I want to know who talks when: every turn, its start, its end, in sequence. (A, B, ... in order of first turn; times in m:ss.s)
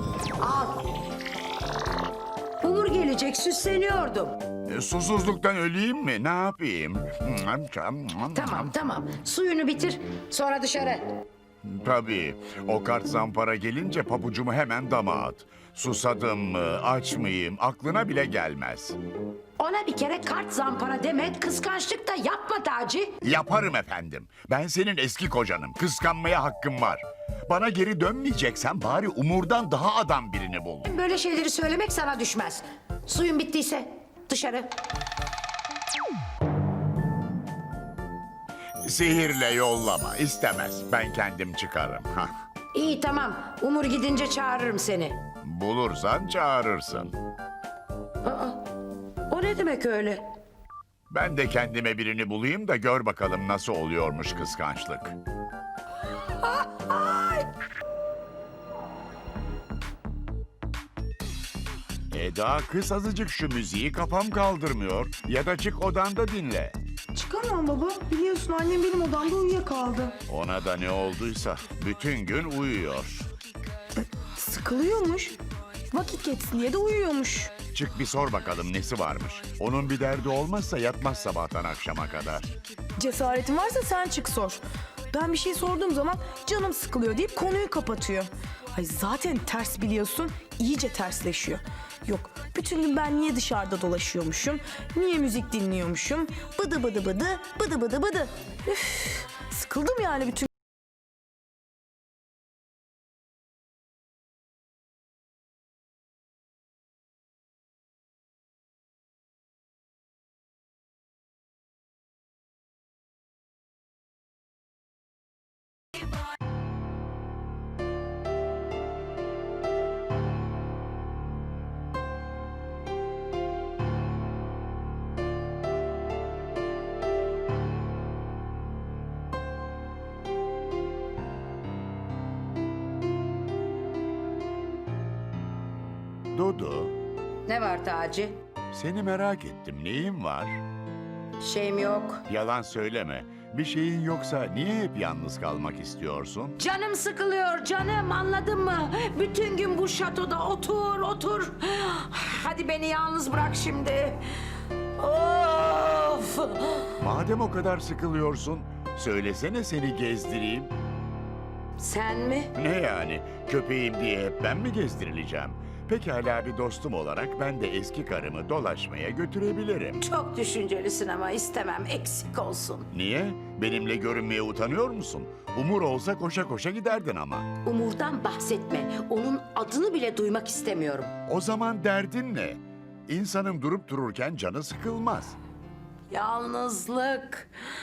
0:00.4-0:00.8 A
0:02.6-0:04.4 A
0:04.6-0:08.7 B
0:08.3-0:11.0 A
0:11.6-0:19.0 B
0:19.6-0:23.2 A
0:23.2-0:30.9 B
0:30.8-0:34.7 A
0:38.8-0:42.3 B
0:42.7-0:45.2 A
0:45.4-0:47.1 B
0:48.2-0:48.6 A
0:49.3-0:50.2 A
0:51.1-0:55.2 B
0:56.4-0:57.4 A
1:02.1-1:06.8 B
1:07.1-1:10.2 C
1:10.3-1:13.3 B
1:14.4-1:15.4 C
1:15.9-1:17.5 C
1:17.7-1:22.4 B
1:23.0-1:40.5 C
2:16.3-2:16.9 B
2:17.5-2:18.4 A
2:18.7-2:20.6 B
2:21.4-2:22.2 A
2:22.3-2:26.6 B
2:26.6-2:34.2 A
2:35.0-2:36.9 A
2:37.0-2:40.7 B
2:41.8-2:42.5 A
2:42.5-2:50.0 B
2:50.0-2:52.9 A
2:52.9-2:57.5 B
2:57.6-3:01.1 A
3:01.3-3:05.4 B
3:06.1-3:07.5 A